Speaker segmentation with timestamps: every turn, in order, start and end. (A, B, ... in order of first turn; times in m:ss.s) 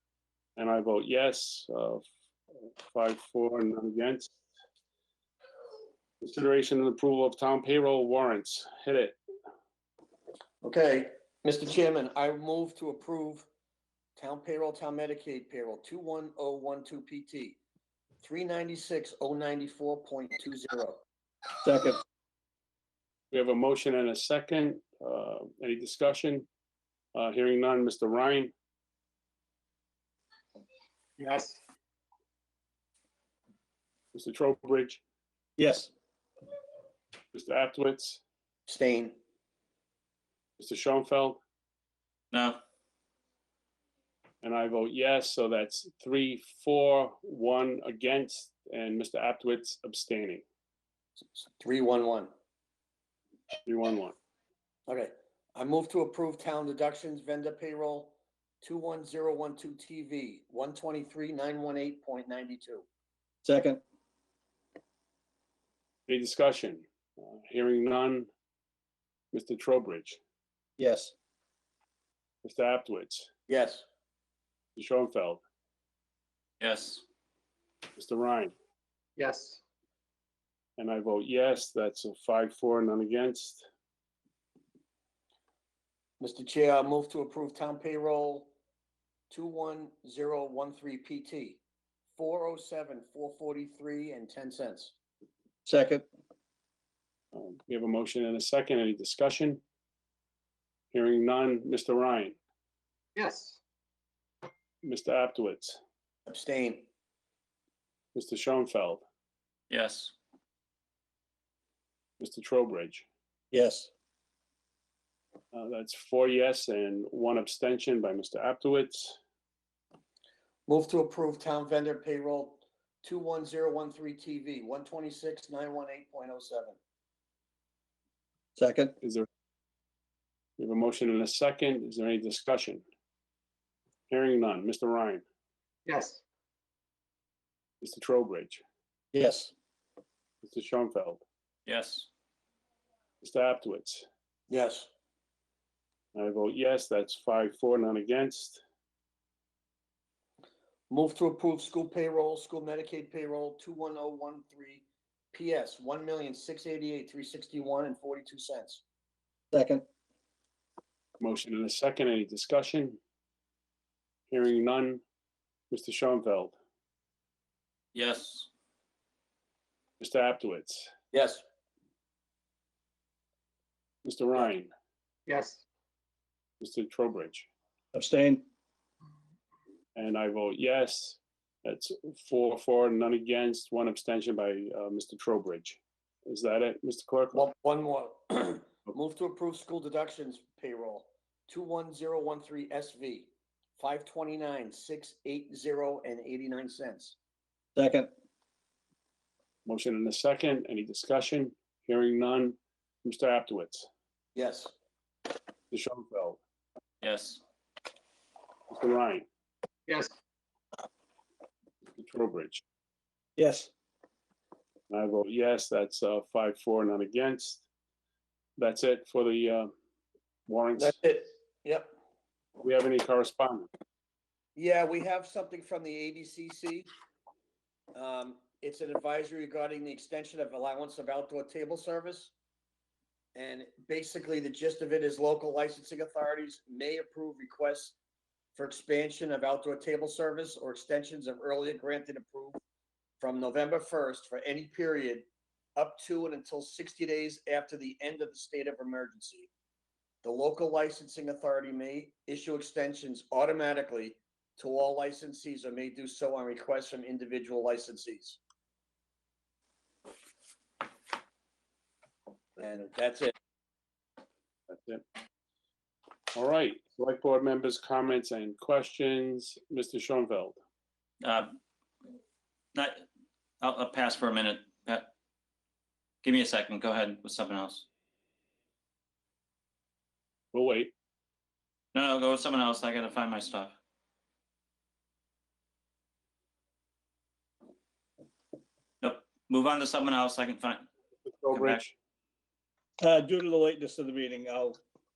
0:00.6-0:02.0 A
0:02.9-0:04.3 A
0:06.2-0:09.2 A
0:10.6-0:13.5 B
0:14.2-0:17.6 B
0:18.2-0:21.0 B
0:21.6-0:22.0 C
0:23.3-0:26.5 A
0:27.1-0:28.5 A
0:31.2-0:31.6 D
0:34.1-0:35.0 A
0:35.6-0:35.9 C
0:37.3-0:38.2 A
0:38.7-0:39.2 B
0:40.6-0:41.4 A
0:42.3-0:42.6 E
0:44.4-0:50.4 A
0:51.2-0:52.3 B
0:53.6-0:54.2 A
0:54.9-1:02.8 B
1:03.4-1:03.8 C
1:06.1-1:08.3 A
1:09.3-1:10.2 A
1:10.8-1:11.1 C
1:12.4-1:13.3 A
1:13.5-1:13.8 B
1:14.8-1:15.4 A
1:16.6-1:17.0 E
1:18.0-1:18.5 A
1:19.2-1:19.6 D
1:20.8-1:23.6 A
1:26.2-1:28.5 B
1:29.3-1:31.6 B
1:32.1-1:34.9 B
1:35.7-1:36.0 C
1:37.3-1:39.6 A
1:40.9-1:42.4 A
1:43.2-1:43.6 D
1:44.8-1:45.8 A
1:46.3-1:46.9 B
1:48.1-1:49.0 A
1:49.7-1:50.1 E
1:52.2-1:53.0 A
1:53.5-1:53.9 C
1:55.5-1:59.2 A
2:00.7-2:06.8 B
2:08.6-2:08.9 C
2:09.0-2:09.3 A
2:10.6-2:12.8 A
2:14.1-2:15.2 A
2:15.9-2:16.2 D
2:17.8-2:18.6 A
2:19.1-2:19.5 C
2:20.4-2:21.2 A
2:21.6-2:22.1 E
2:23.2-2:24.0 A
2:24.5-2:24.9 B
2:26.1-2:28.6 A
2:30.9-2:38.8 B
2:39.5-2:39.8 C
2:41.2-2:43.0 A
2:44.3-2:45.0 A
2:45.7-2:46.5 A
2:47.9-2:48.5 E
2:50.0-2:50.9 A
2:51.1-2:51.4 B
2:54.0-2:54.7 A
2:55.3-2:55.6 D
2:56.6-2:57.5 A
2:57.9-2:58.4 C
3:00.0-3:07.4 A
3:07.3-3:17.1 B
3:17.8-3:18.1 C
3:19.6-3:23.9 A
3:24.3-3:24.7 B
3:25.7-3:26.4 A
3:27.0-3:27.4 E
3:28.7-3:29.3 A
3:32.0-3:32.6 A
3:33.4-3:33.7 C
3:34.9-3:37.6 A
3:38.6-3:39.7 A
3:40.5-3:41.0 A
3:40.8-3:41.9 B
3:42.6-3:43.7 A
3:44.6-3:46.9 B
3:47.9-3:52.3 B
3:53.3-3:58.0 B
3:58.5-4:02.6 B
4:03.2-4:05.2 B
4:05.8-4:09.5 B
4:10.2-4:18.4 B
4:22.6-4:23.3 B
4:24.7-4:25.0 A
4:26.3-4:30.6 A
4:31.2-4:31.5 E
4:32.7-4:33.0 E
4:33.6-4:35.1 E
4:36.2-4:37.8 E
4:40.5-4:40.9 A
4:41.9-4:43.7 E
4:49.0-4:50.9 E
4:51.4-4:51.9 A
4:51.5-4:51.8 E
4:53.0-4:54.8 C